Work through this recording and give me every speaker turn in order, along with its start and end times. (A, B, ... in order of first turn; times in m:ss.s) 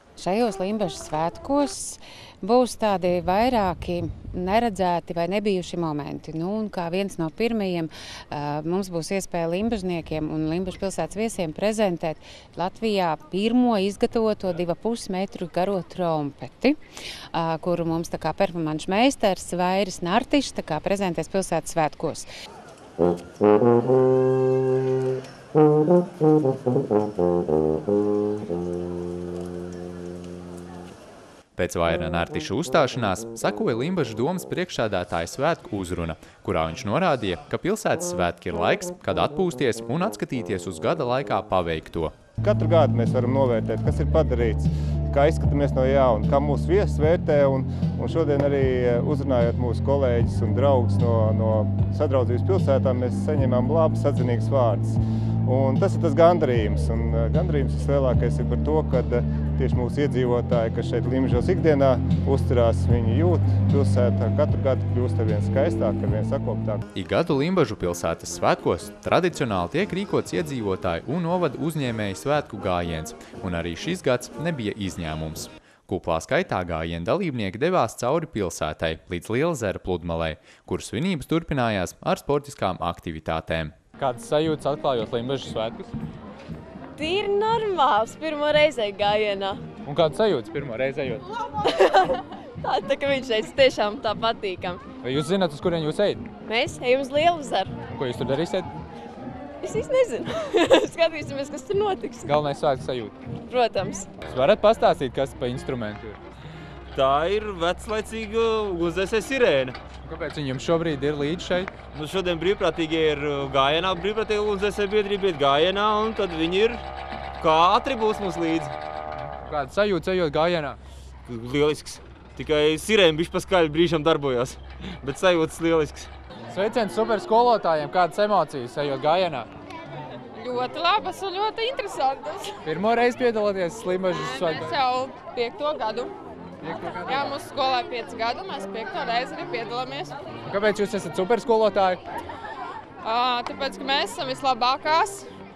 0:00.2-0:16.8 A
0:17.3-0:22.3 A
0:31.6-0:42.1 B
0:42.4-1:06.9 C
1:06.9-1:23.8 B
1:24.0-1:25.9 D
1:27.0-1:29.6 E
1:29.8-1:31.3 D
1:31.6-1:34.8 E
1:35.0-1:36.3 D
1:36.4-1:37.8 E
1:37.9-1:38.7 D
1:39.6-1:42.3 E
1:42.2-1:43.2 D
1:43.5-1:44.1 E
1:44.2-1:46.2 D
1:46.9-1:49.8 F
1:50.0-1:51.7 D
1:51.9-1:56.8 F
1:57.4-1:58.8 F
1:59.5-2:00.8 D
2:01.3-2:06.1 F
2:06.5-2:09.5 D
2:10.4-2:12.6 G
2:12.6-2:14.8 D
2:14.1-2:16.1 G
2:16.6-2:17.3 D
2:17.1-2:20.1 G
2:20.5-2:22.0 D
2:23.0-2:25.3 G